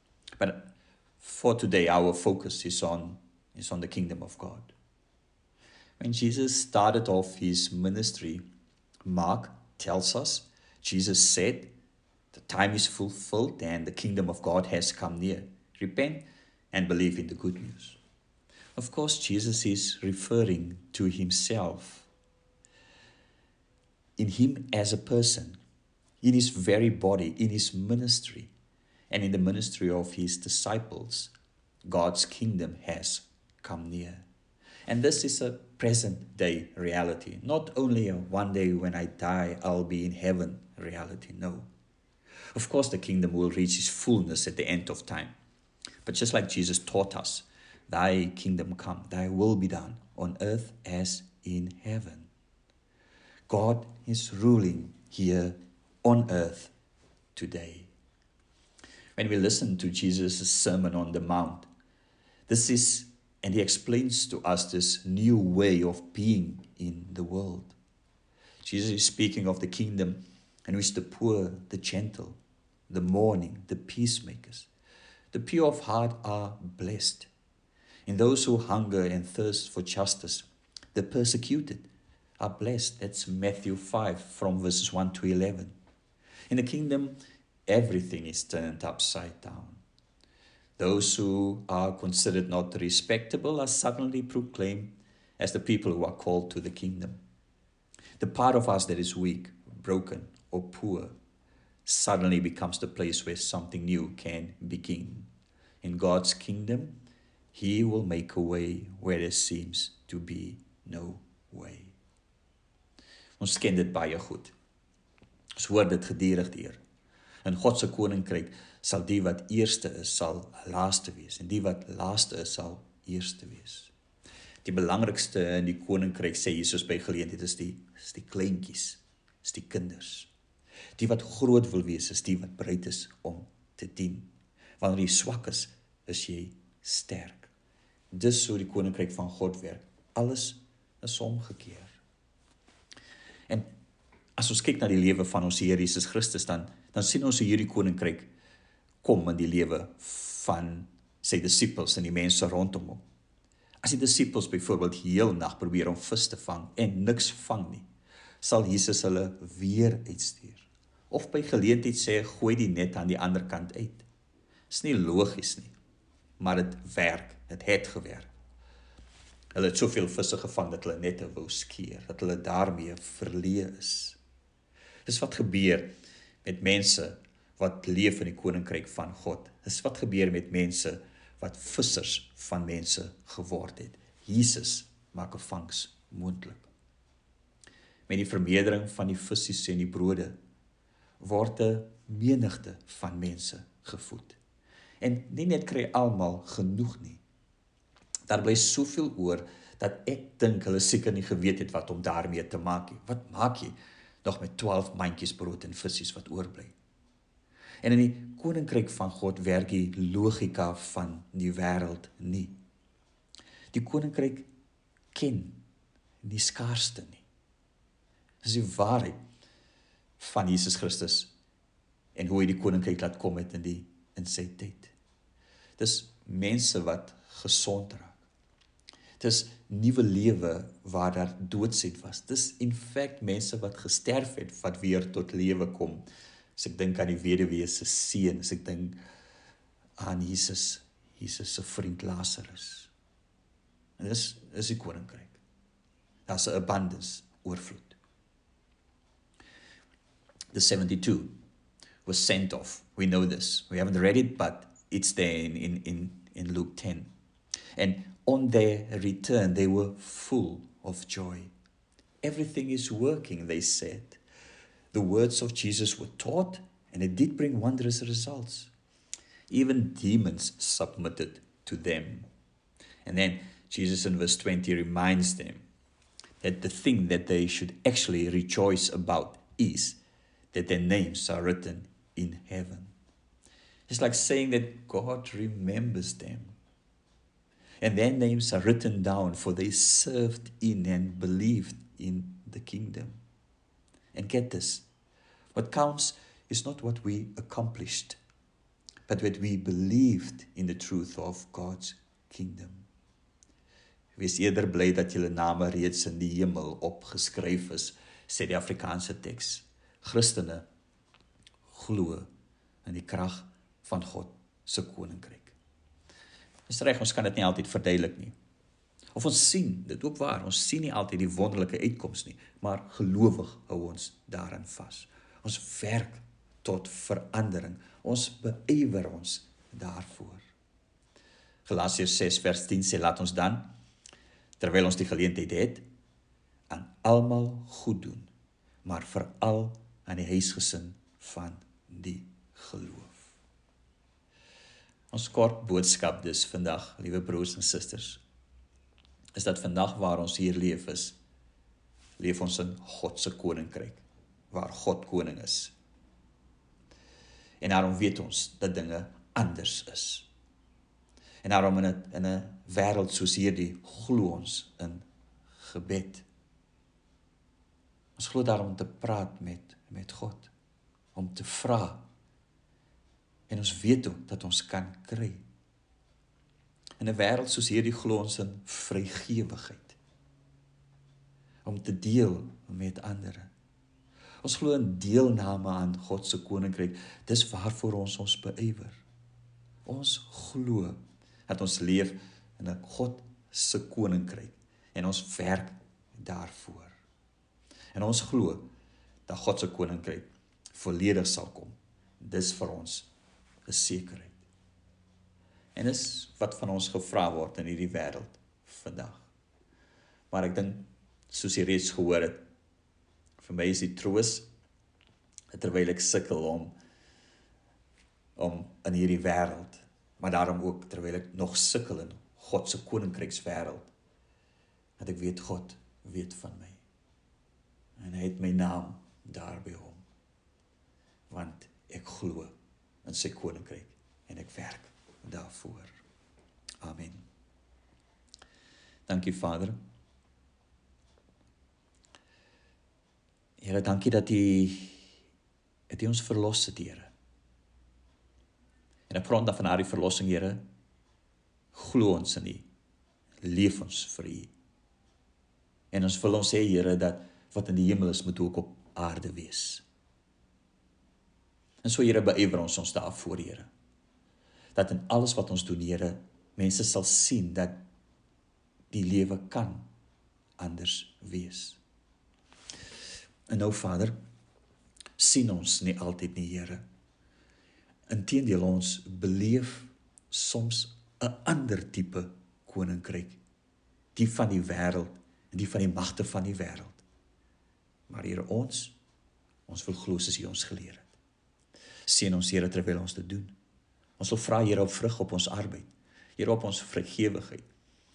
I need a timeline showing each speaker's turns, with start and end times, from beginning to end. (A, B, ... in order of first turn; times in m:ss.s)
0:00.4-0:04.7 A
0:06.0-0:08.4 A
0:09.0-0:11.7 A
0:12.3-0:18.0 A
0:18.7-0:22.1 A
0:24.2-0:25.6 A
0:26.2-0:28.5 A
0:29.1-0:31.3 A
0:31.8-0:34.2 A
0:34.9-0:41.7 A
0:42.5-0:45.3 A
0:46.0-0:52.3 A
0:53.5-0:56.7 A
0:57.3-0:57.9 A
0:59.2-1:01.7 A
1:02.5-1:07.8 A
1:08.6-1:14.7 A
1:15.3-1:17.3 A
1:18.1-1:21.9 A
1:22.4-1:25.7 A
1:26.5-1:29.8 A
1:30.8-1:37.2 A
1:38.2-1:41.1 A
1:41.8-1:45.3 A
1:45.8-1:47.0 A
1:47.5-1:51.9 A
1:53.4-1:54.5 A
1:55.6-1:56.8 A
1:57.4-2:03.9 A
2:04.6-2:10.3 A
2:11.0-2:17.5 A
2:18.1-2:22.0 A
2:24.4-2:28.3 A
2:29.0-2:33.0 A
2:33.8-2:37.8 A
2:38.4-2:44.0 A
2:44.7-2:45.7 A
2:46.4-2:48.3 A
2:49.5-2:54.2 A
2:55.0-2:55.9 A
2:56.4-3:06.7 A
3:08.1-3:10.3 A
3:11.2-3:14.4 A
3:15.0-3:17.2 A
3:18.3-3:26.7 A
3:27.8-3:32.6 A
3:33.7-3:34.5 A
3:35.1-3:35.6 A
3:36.2-3:37.2 A
3:38.4-3:39.2 A
3:40.2-3:41.3 A
3:42.1-3:44.9 A
3:45.8-3:48.2 A
3:49.2-3:59.0 A
4:00.0-4:02.9 A
4:04.0-4:05.4 A
4:06.3-4:08.0 A
4:10.5-4:11.3 A
4:12.0-4:17.1 A
4:17.8-4:21.5 A
4:22.2-4:24.2 A
4:24.9-4:28.7 A
4:29.5-4:32.3 A
4:33.0-4:35.6 A
4:36.4-4:40.0 A
4:40.5-4:42.9 A
4:43.9-4:46.6 A
4:47.8-4:53.2 A
4:54.1-4:54.9 A
4:55.5-4:58.2 A
4:59.1-5:02.8 A
5:04.2-5:10.6 A
5:11.7-5:12.3 A
5:12.8-5:15.6 A
5:16.7-5:18.3 A
5:19.1-5:30.5 A
5:31.6-5:33.7 A
5:34.6-5:35.8 A
5:36.7-5:38.3 A
5:38.8-5:43.3 A
5:45.1-5:48.2 A
5:49.4-5:51.2 A
5:52.2-5:55.7 A
5:57.6-6:00.3 A
6:01.4-6:05.0 A
6:05.6-6:06.2 A
6:08.2-6:10.5 A
6:11.1-6:12.0 A
6:13.5-6:15.4 A
6:17.0-6:20.0 A
6:21.6-6:23.5 A
6:24.4-6:29.0 A
6:29.8-6:37.0 A
6:37.9-6:38.7 A
6:39.3-6:43.1 A
6:43.7-6:44.4 A
6:45.7-6:49.3 A
6:50.3-6:52.4 A
6:53.4-6:54.5 A
6:55.5-6:56.7 A
6:58.4-7:03.9 A
7:05.0-7:06.8 A
7:08.0-7:10.0 A
7:11.3-7:15.9 A
7:16.8-7:17.2 A
7:19.1-7:19.7 A
7:23.6-7:25.0 A
7:25.9-7:27.1 A
7:29.1-7:30.6 A
7:31.7-7:32.7 A
7:33.4-7:34.5 A
7:35.9-7:39.8 A
7:41.8-7:43.7 A
7:44.7-7:47.8 A
7:48.9-7:49.9 A
7:50.6-7:51.8 A
7:53.5-7:54.2 A
7:55.2-7:56.8 A
7:58.1-8:03.4 A
8:04.1-8:07.0 A
8:08.1-8:09.0 A
8:09.7-8:11.1 A
8:12.0-8:13.5 A
8:14.2-8:17.6 A